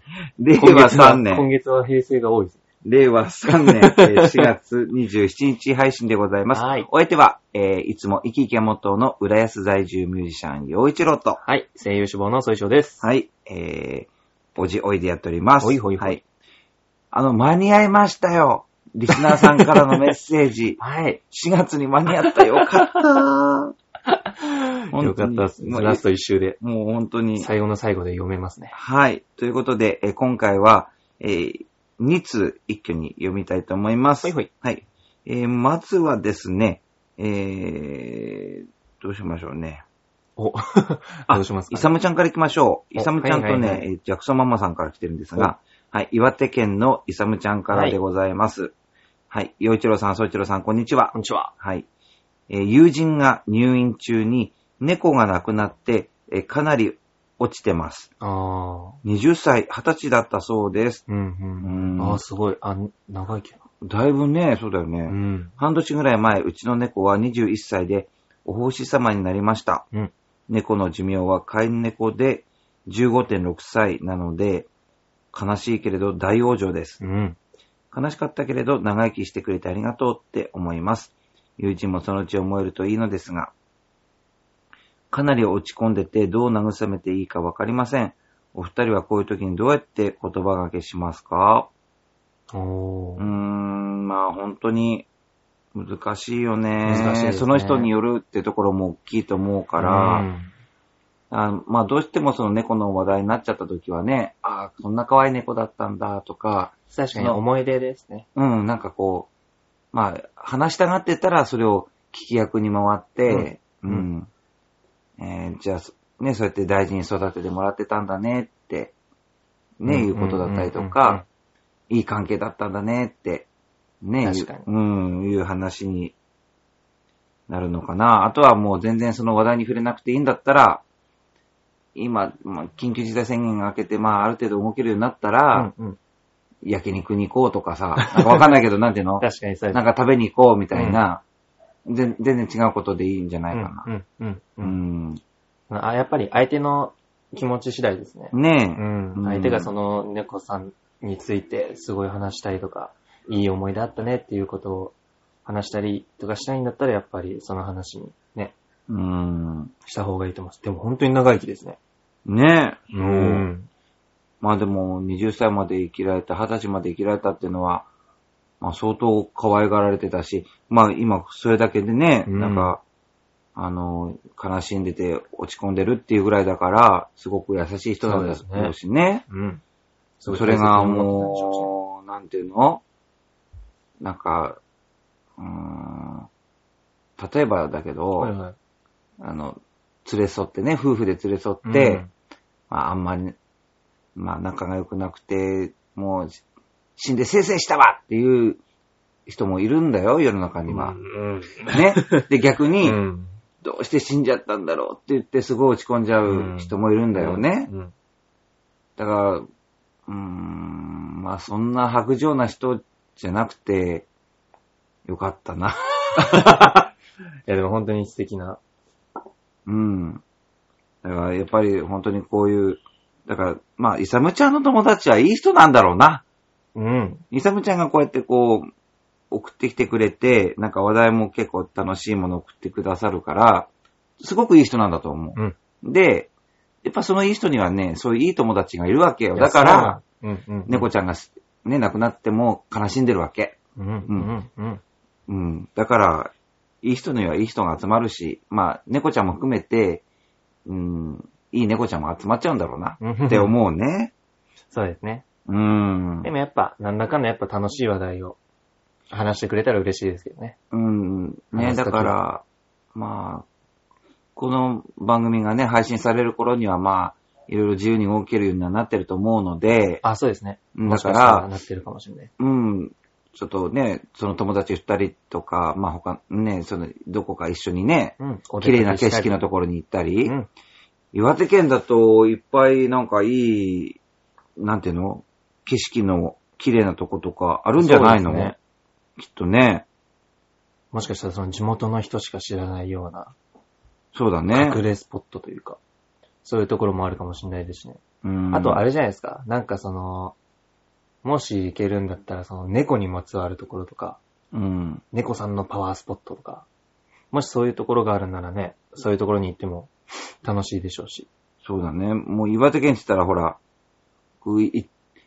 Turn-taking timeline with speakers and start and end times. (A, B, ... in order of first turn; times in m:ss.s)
0:00.4-0:01.4 A
0:00.5-0:02.6 B
0:02.8-0:11.4 A
0:03.7-0:04.5 B
0:06.5-0:06.9 B
0:11.4-0:13.0 B
0:13.0-0:16.2 A
0:15.6-0:16.2 B
0:17.1-0:23.7 A
0:19.1-0:19.4 B
0:20.8-0:21.2 B
0:24.4-0:26.6 B
0:24.9-0:26.0 A
0:26.6-0:27.5 A
0:27.4-0:28.7 B
0:28.7-0:39.8 A
0:34.2-0:34.5 B
0:40.4-0:41.9 B
0:41.3-0:48.7 A
0:42.9-0:43.9 B
0:47.7-0:48.0 B
0:49.3-0:51.9 A
0:51.1-0:51.5 B
0:52.5-0:58.1 A
0:58.2-0:59.0 B
0:59.0-1:01.0 A
1:01.1-1:03.6 B
1:01.6-1:02.2 A
1:03.8-1:09.8 A
1:05.1-1:05.6 B
1:10.5-1:14.7 A
1:15.3-1:17.0 A
1:17.0-1:17.4 B
1:17.9-1:23.5 A
1:25.1-1:31.7 A
1:32.5-1:33.3 B
1:33.2-1:35.1 A
1:35.7-1:40.3 A
1:36.8-1:37.9 B
1:39.8-1:40.5 B
1:41.3-1:47.4 A
1:46.9-1:48.2 B
1:48.3-1:49.3 A
1:49.9-1:54.3 A
1:53.3-1:54.1 B
1:55.2-1:58.9 A
1:59.8-2:01.2 A
1:59.8-2:01.2 B
2:01.9-2:03.5 A
2:04.0-2:06.1 A
2:04.2-2:04.7 B
2:07.5-2:10.8 A
2:12.0-2:15.7 A
2:15.5-2:16.0 B
2:16.6-2:21.2 A
2:18.0-2:18.5 B
2:19.2-2:19.8 B
2:20.7-2:21.0 B
2:21.8-2:23.9 A
2:23.5-2:24.7 B
2:24.6-2:25.2 A
2:25.7-2:38.5 B
2:28.3-2:29.7 A
2:38.9-2:39.7 A
2:39.8-2:41.8 B
2:42.2-2:43.5 A
2:42.9-2:43.7 B
2:44.4-2:47.9 A
2:48.6-2:52.8 A
2:52.3-2:52.8 B
2:53.5-2:59.2 A
2:58.0-2:58.7 B
2:59.3-2:59.6 B
3:00.2-3:01.7 B
3:00.3-3:02.8 A
3:04.0-3:04.6 A
3:05.4-3:06.3 A
3:07.2-3:08.3 A
3:08.2-3:08.6 B
3:09.2-3:12.0 A
3:11.6-3:12.1 B
3:12.7-3:13.4 A
3:14.2-3:16.4 A
3:17.0-3:18.6 A
3:19.3-3:21.0 A
3:20.7-3:22.2 B
3:21.7-3:23.0 A
3:22.8-3:23.3 B
3:23.6-3:27.7 A
3:26.2-3:27.9 B
3:29.0-3:29.4 A
3:30.1-3:34.1 A
3:35.1-3:36.9 A
3:37.5-3:38.6 B
3:39.6-3:40.2 A
3:41.0-3:46.2 A
3:46.7-3:47.2 B
3:47.3-3:48.7 A
3:49.3-3:53.7 A
3:54.2-3:56.3 A
3:56.8-4:00.0 A
3:59.3-4:00.9 B
4:00.7-4:03.6 A
4:03.8-4:04.8 B
4:05.3-4:06.3 A
4:06.8-4:10.0 A
4:10.6-4:14.1 A
4:13.0-4:13.5 B
4:14.7-4:15.2 B
4:15.5-4:16.3 A
4:16.2-4:18.4 B
4:19.1-4:20.6 B
4:20.7-4:23.4 A
4:21.5-4:22.2 B
4:24.4-4:30.0 A
4:30.0-4:32.3 B
4:30.7-4:31.5 A
4:32.4-4:40.3 A
4:38.2-4:39.4 B
4:41.1-4:44.0 A
4:44.6-4:48.5 A
4:47.8-4:48.6 B
4:49.2-4:49.8 A
4:50.9-4:53.3 B
4:54.1-4:54.8 A
4:54.5-4:55.8 B
4:56.4-5:00.4 B
4:58.2-4:58.8 A
5:01.2-5:04.2 B
5:04.5-5:05.0 A
5:05.1-5:06.6 B
5:07.3-5:11.3 B
5:11.6-5:13.6 A
5:14.4-5:14.9 A